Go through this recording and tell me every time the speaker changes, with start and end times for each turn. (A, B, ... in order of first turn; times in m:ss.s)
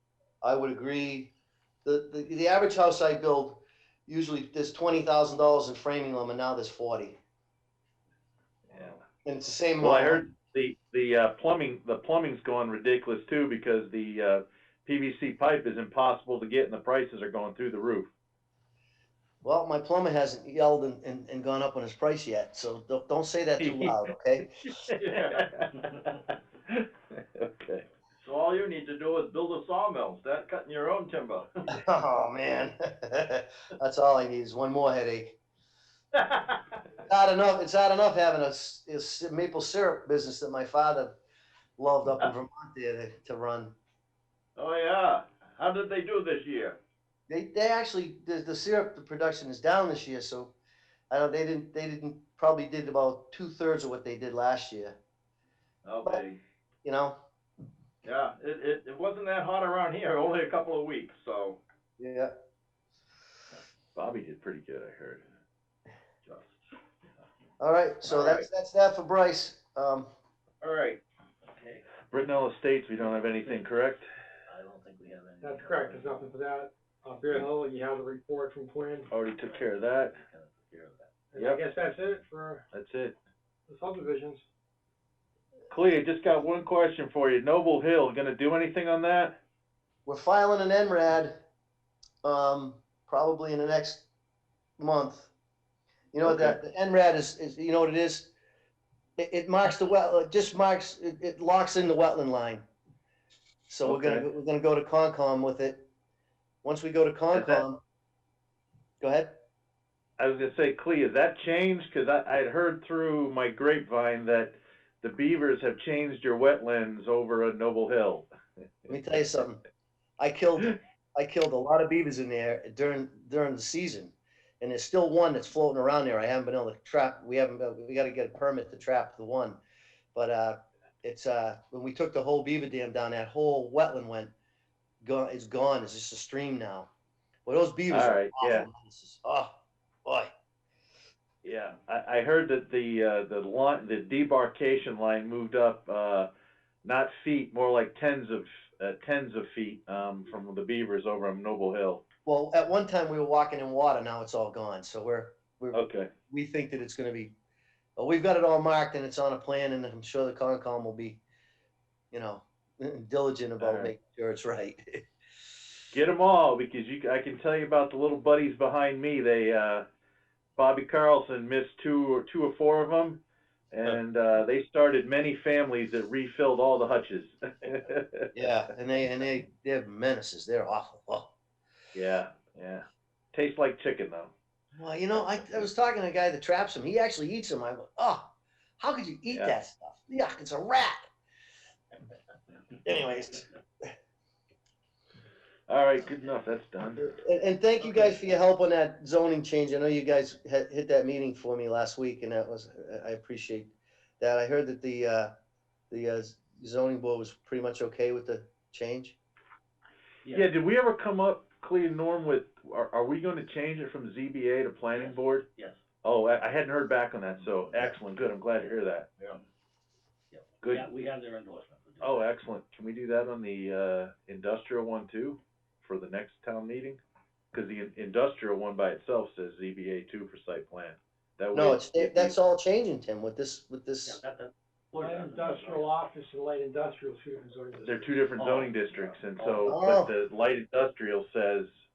0:00.4-0:01.3 A
0:01.8-0:07.2 A
0:09.2-0:10.2 A
0:09.8-0:18.1 B
0:19.4-0:24.5 A
0:23.6-0:24.1 B
0:25.0-0:25.5 C
0:25.1-0:25.7 B
0:26.7-0:27.8 B
0:28.2-0:31.5 C
0:31.7-0:35.4 A
0:36.2-0:36.6 C
0:37.1-0:41.2 A
0:41.8-0:43.8 A
0:44.6-0:46.8 C
0:47.3-0:50.6 A
0:51.1-0:55.0 A
0:55.8-0:56.4 C
0:56.8-0:57.2 A
0:58.0-1:01.6 C
1:02.0-1:02.3 A
1:04.0-1:05.2 B
1:06.2-1:06.6 D
1:07.6-1:10.1 A
1:08.1-1:08.4 C
1:10.6-1:11.0 C
1:11.5-1:11.8 D
1:12.1-1:14.1 B
1:13.3-1:13.6 D
1:14.5-1:16.3 D
1:15.4-1:19.1 E
1:19.1-1:20.2 B
1:19.4-1:21.1 D
1:21.3-1:22.6 E
1:21.4-1:21.6 B
1:22.7-1:23.2 B
1:23.7-1:24.4 E
1:25.7-1:29.4 B
1:30.1-1:31.4 A
1:32.2-1:34.1 A
1:34.8-1:35.3 A
1:36.1-1:38.3 A
1:36.2-1:36.6 B
1:39.2-1:42.6 A
1:43.7-1:45.8 A
1:43.8-1:44.3 B
1:46.6-1:47.8 A
1:47.3-1:47.6 B
1:49.0-1:49.4 A
1:50.2-1:58.3 B
1:58.9-1:59.6 A
2:00.2-2:09.6 A
2:10.1-2:14.3 A
2:15.0-2:16.9 A
2:17.5-2:20.3 A
2:17.9-2:18.7 B
2:21.4-2:26.3 B
2:26.8-2:32.0 B
2:32.3-2:37.4 A
2:35.7-2:36.1 B
2:38.0-2:41.2 A
2:42.1-2:45.0 A
2:43.6-2:43.9 B
2:45.9-2:49.8 B
2:50.6-2:58.3 B
2:58.4-3:01.3 A
3:01.9-3:04.3 B
3:04.8-3:11.1 A
3:12.8-3:13.5 A
3:15.7-3:17.2 B
3:17.0-3:25.3 A
3:25.9-3:29.2 A
3:30.3-3:35.4 B
3:34.9-3:35.8 D
3:36.0-3:39.1 B
3:40.3-3:42.2 D
3:40.6-3:40.9 B
3:42.0-3:47.0 B
3:47.5-3:52.4 B
3:51.5-3:54.2 A
3:54.1-3:55.9 D
3:55.0-3:58.2 E
3:57.8-4:01.7 B
3:58.4-3:59.6 D
3:59.6-4:00.1 A